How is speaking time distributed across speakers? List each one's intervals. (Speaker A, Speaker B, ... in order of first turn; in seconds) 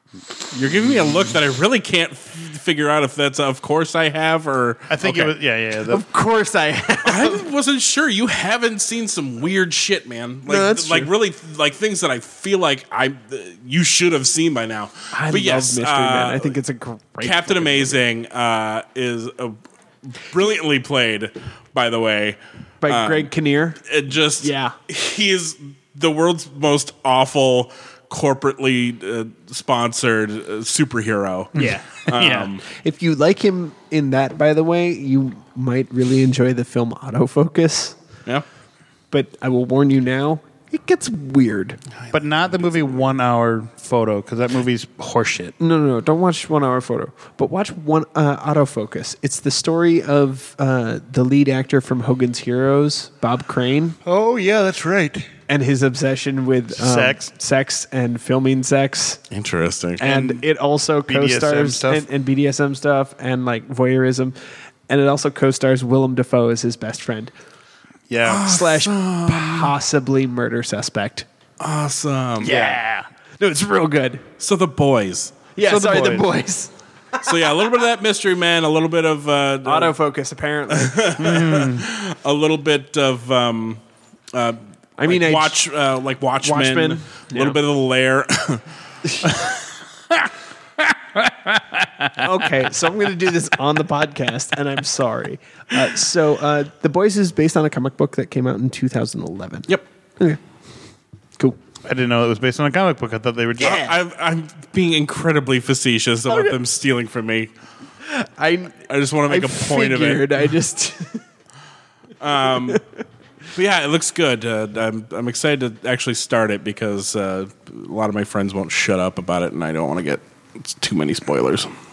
Speaker A: 0.5-5.3, 7.0-16.6, 17.2-32.6, 59.3-60.2, 68.2-69.7, 71.6-72.6, 74.4-75.5, 77.2-80.0, 80.7-83.8, 84.3-88.6, 103.6-107.5, 108.9-110.4, 112.2-112.8, 113.5-121.7
Speaker B: 4.9-6.0, 31.6-32.5, 42.1-45.5, 54.0-55.3, 56.7-57.2, 61.1-62.0, 68.1-68.5, 72.4-73.0, 75.6-76.3, 81.2-81.8, 91.1-92.2, 101.8-103.8
Speaker C: 5.9-7.4, 10.5-11.1, 15.1-18.0, 22.8-23.8, 24.4-24.8, 31.5-38.0, 39.1-41.8, 45.6-54.0, 55.5-59.2, 60.0-64.3, 64.9-67.3, 68.4-71.2, 72.4-72.8, 73.4-74.2, 75.5-77.3, 79.6-81.5, 85.0-85.6, 86.4-87.6, 92.2-100.4, 103.6-103.9, 108.0-111.2